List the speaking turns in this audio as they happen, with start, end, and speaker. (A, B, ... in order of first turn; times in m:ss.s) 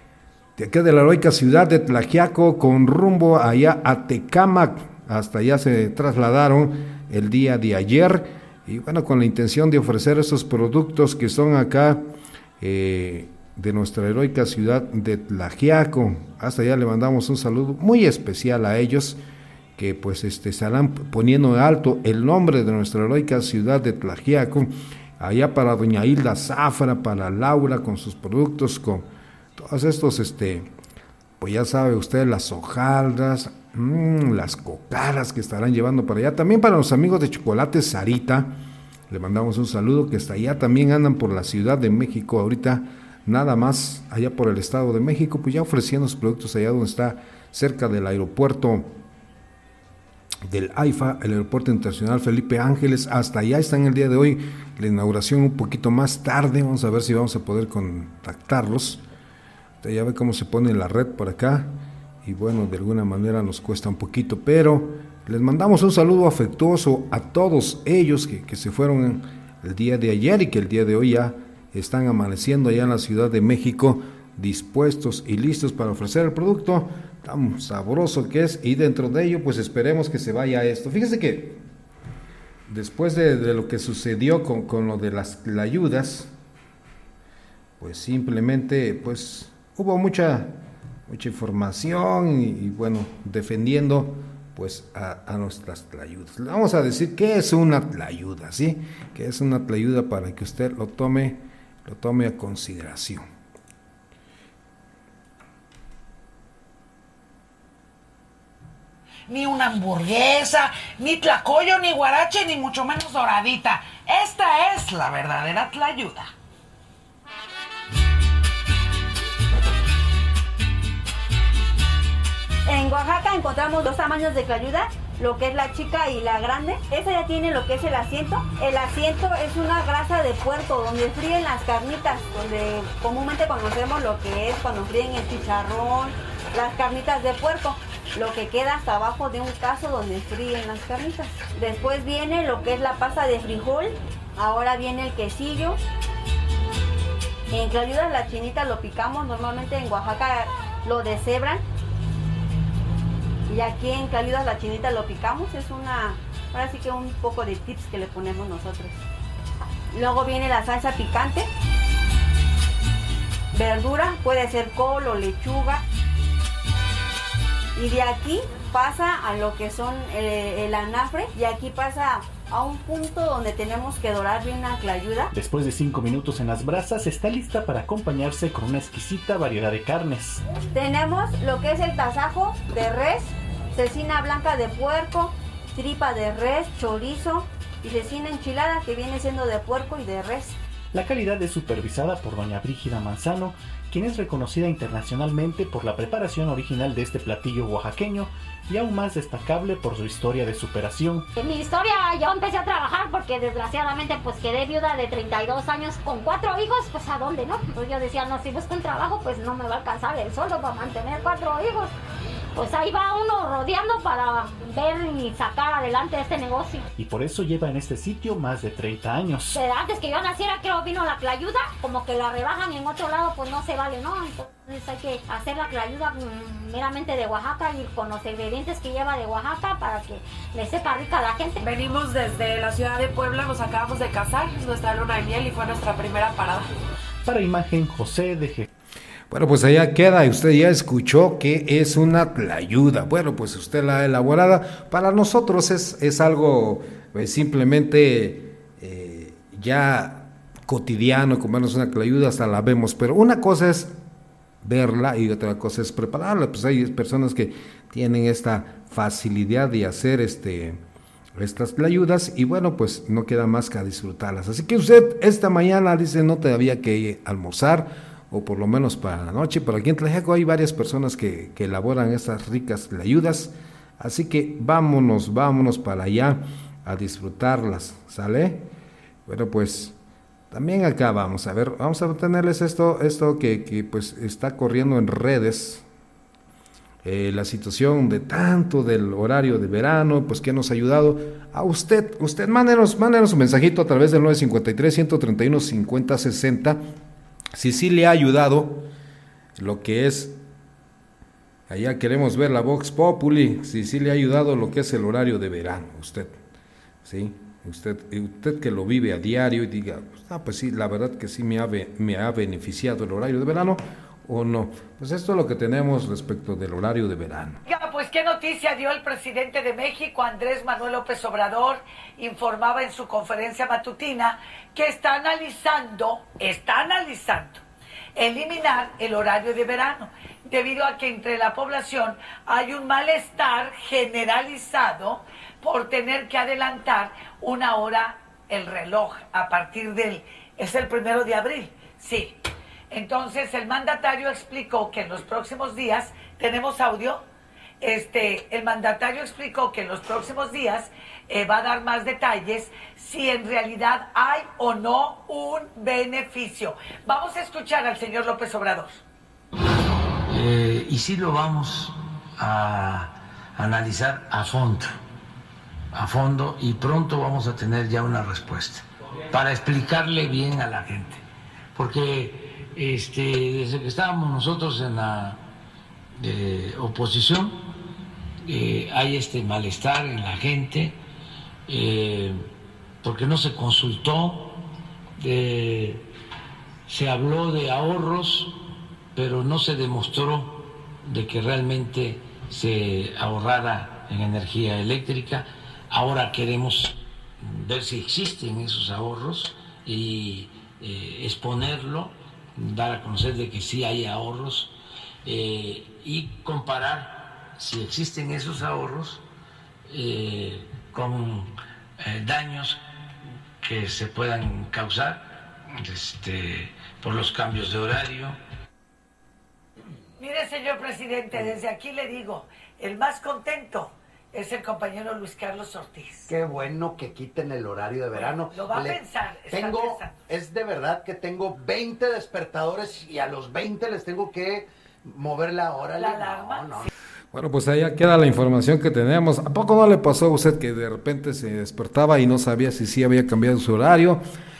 0:00.6-0:12.0 A
0:12.6-0:19.2 A
0:19.8-0:30.7 A
0:31.4-0:38.5 A
0:39.1-0:48.9 A
0:50.4-0:59.0 A
0:59.8-1:01.7 A
1:02.2-1:21.6 A
1:22.7-1:26.3 A
1:27.8-1:30.6 A
1:31.1-1:43.3 A
1:49.3-1:56.3 B
2:02.7-2:25.8 C
2:27.5-2:31.6 C
2:33.5-2:39.0 C
2:39.9-2:41.5 C
2:43.5-2:45.8 C
2:47.8-2:55.3 C
2:55.3-3:00.4 D
3:00.7-3:10.6 C
3:10.9-3:21.2 D
3:21.4-3:31.9 E
3:32.5-3:36.8 E
3:37.0-3:39.6 D
3:39.5-3:51.6 E
3:51.6-3:56.6 F
3:57.2-3:58.7 D
3:59.3-4:13.9 A
4:14.6-4:20.8 A
4:21.4-4:38.6 A
4:39.3-4:40.0 A
4:40.5-4:45.8 A
4:47.0-4:56.8 A
4:57.5-4:58.9 A
4:59.6-5:00.4 A
5:01.7-5:06.3 A
5:07.0-5:17.6 A
5:17.6-5:27.6 B
5:28.1-5:42.4 B
5:42.9-5:47.2 B
5:47.8-5:59.0 B
6:00.3-6:05.0 G
6:05.9-6:11.2 G
6:11.7-6:15.4 G
6:16.2-6:17.6 G
6:18.4-6:21.0 G
6:21.7-6:22.5 G
6:23.0-6:24.6 G
6:25.2-6:26.0 G
6:26.9-6:28.6 G
6:29.1-6:49.2 G
6:49.9-6:52.8 G
6:53.6-6:58.4 G
7:00.2-7:06.3 B
7:06.3-7:09.0 H
7:08.1-7:10.2 B
7:09.5-7:16.9 H
7:15.9-7:16.9 B
7:17.3-7:24.2 A